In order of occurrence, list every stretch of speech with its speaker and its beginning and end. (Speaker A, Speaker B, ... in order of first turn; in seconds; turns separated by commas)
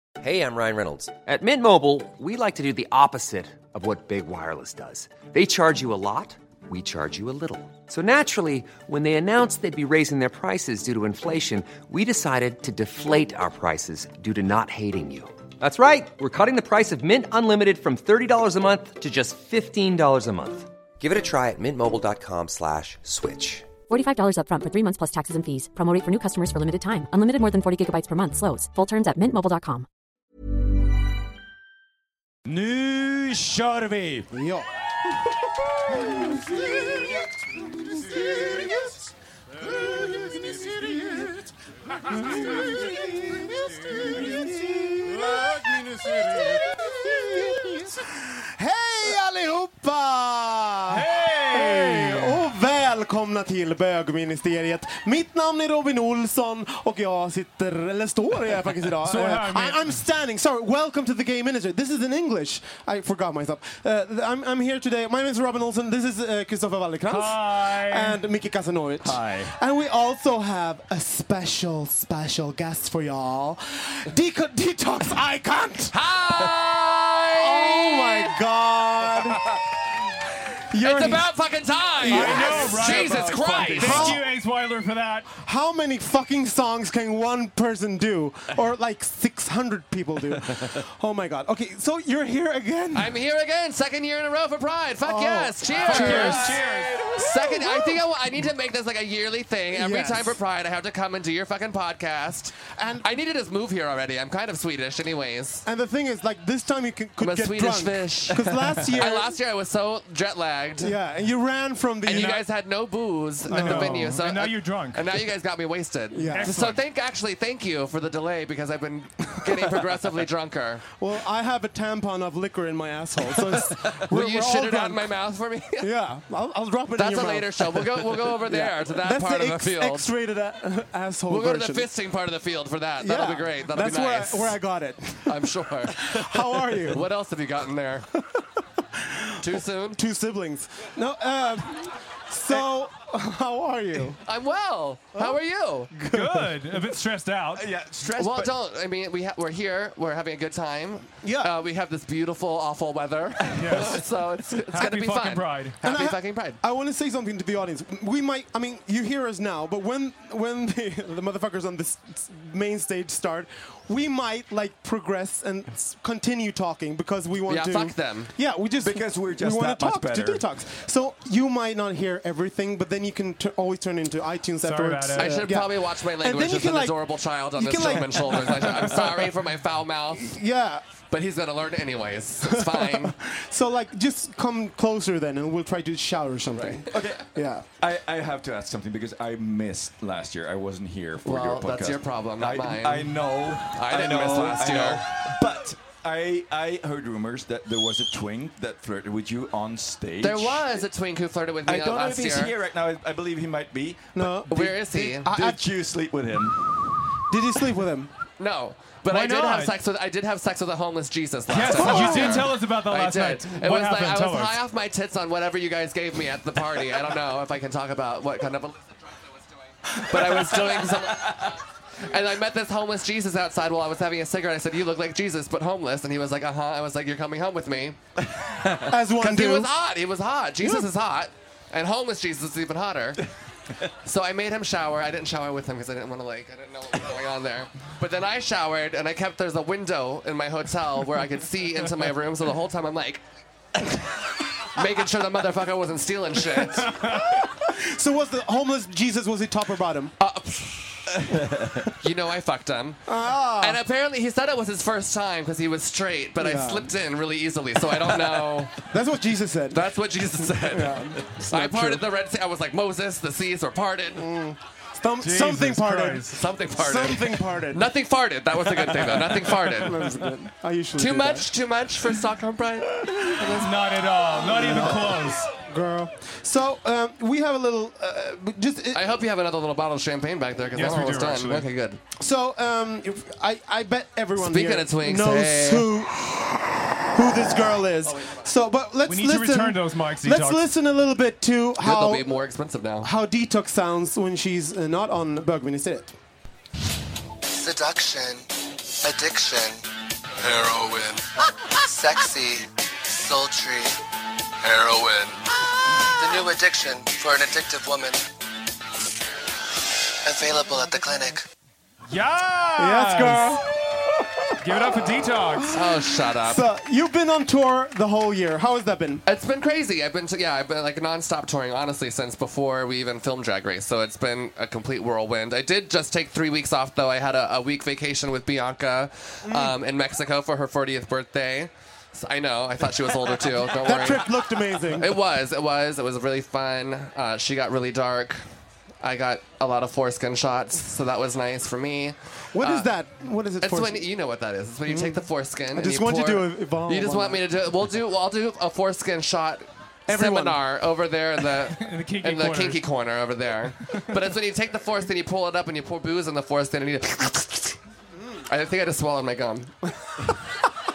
Speaker A: 0.2-23.7, Speaker B: 23.9-29.9, Speaker C: 32.5-34.3, Speaker D: 34.3-35.3, Speaker D: 35.9-39.0, Speaker D: 39.6-76.5, Speaker E: 50.9-52.4, Speaker E: 59.1-59.9, Speaker E: 67.1-68.2, Speaker E: 69.0-69.5, Speaker F: 75.9-78.4, Speaker D: 77.3-79.6, Speaker D: 80.7-81.3, Speaker F: 80.8-84.2, Speaker D: 82.0-83.1, Speaker E: 82.1-85.3, Speaker D: 83.8-84.2, Speaker D: 85.3-93.2, Speaker F: 92.9-96.5, Speaker D: 95.0-96.6, Speaker C: 95.7-97.3, Speaker E: 95.8-97.0, Speaker F: 97.2-105.7, Speaker D: 97.2-98.0, Speaker D: 99.7-100.4, Speaker D: 102.7-103.0, Speaker D: 105.7-109.3, Speaker F: 107.2-111.0, Speaker D: 110.8-112.4, Speaker F: 112.1-120.9, Speaker E: 112.1-112.4, Speaker D: 113.5-114.2, Speaker E: 113.5-115.1, Speaker D: 116.1-116.8, Speaker E: 116.3-116.7, Speaker D: 121.0-125.1, Speaker F: 123.6-125.9, Speaker D: 125.8-131.9, Speaker F: 127.0-130.1, Speaker F: 131.3-134.6, Speaker D: 133.0-137.1, Speaker F: 135.2-138.1, Speaker D: 138.9-144.2, Speaker F: 139.4-140.0, Speaker F: 144.2-145.9, Speaker D: 146.0-146.5, Speaker E: 146.1-147.7, Speaker C: 147.6-148.5, Speaker F: 148.2-156.6, Speaker D: 151.2-151.5, Speaker E: 153.5-154.0, Speaker E: 154.7-155.8, Speaker D: 155.8-177.0, Speaker F: 167.5-168.3, Speaker C: 168.8-170.4, Speaker E: 174.6-175.4, Speaker F: 175.2-180.3, Speaker D: 177.6-179.3, Speaker D: 180.1-180.9, Speaker F: 181.1-183.1, Speaker D: 182.4-187.7, Speaker F: 186.6-186.8, Speaker C: 186.9-187.3, Speaker C: 187.8-200.6, Speaker F: 191.2-193.1, Speaker F: 193.7-195.1, Speaker F: 200.2-202.5, Speaker C: 201.7-204.2, Speaker D: 204.2-205.6, Speaker F: 204.5-205.3, Speaker C: 205.2-207.2, Speaker D: 207.3-208.1, Speaker F: 208.4-218.9, Speaker E: 209.1-209.7, Speaker E: 211.5-214.6, Speaker D: 211.7-212.5, Speaker F: 219.9-228.0, Speaker D: 228.9-229.7, Speaker F: 229.2-233.3, Speaker F: 234.0-243.2, Speaker F: 243.8-247.0, Speaker D: 246.8-250.1, Speaker F: 250.2-251.4, Speaker C: 251.3-251.8, Speaker F: 251.9-253.1, Speaker D: 253.1-253.8, Speaker F: 253.6-258.9, Speaker D: 256.4-256.9, Speaker D: 258.8-259.9, Speaker F: 259.7-264.3, Speaker D: 260.4-262.1, Speaker D: 264.2-267.9, Speaker E: 265.2-266.3, Speaker F: 266.3-270.1, Speaker D: 269.8-271.5, Speaker F: 271.0-273.7, Speaker E: 273.6-275.5, Speaker D: 274.5-279.0, Speaker F: 278.9-282.0, Speaker E: 280.7-281.7, Speaker D: 282.2-292.3, Speaker F: 284.4-285.9, Speaker E: 289.1-290.6, Speaker F: 291.8-293.1, Speaker D: 293.0-296.2, Speaker G: 297.6-298.4, Speaker G: 299.0-299.8, Speaker G: 300.4-304.0, Speaker G: 304.6-305.4, Speaker G: 306.1-308.2, Speaker G: 310.2-311.4, Speaker E: 312.1-313.6, Speaker D: 312.8-319.2, Speaker E: 314.6-315.8, Speaker F: 315.7-316.6, Speaker F: 319.3-334.3, Speaker D: 329.4-329.8, Speaker D: 333.8-335.2, Speaker F: 334.9-338.4, Speaker F: 339.0-342.9, Speaker D: 342.5-344.1, Speaker F: 343.6-357.8, Speaker D: 344.9-347.4, Speaker D: 350.1-350.6, Speaker E: 351.7-352.8, Speaker F: 358.5-359.9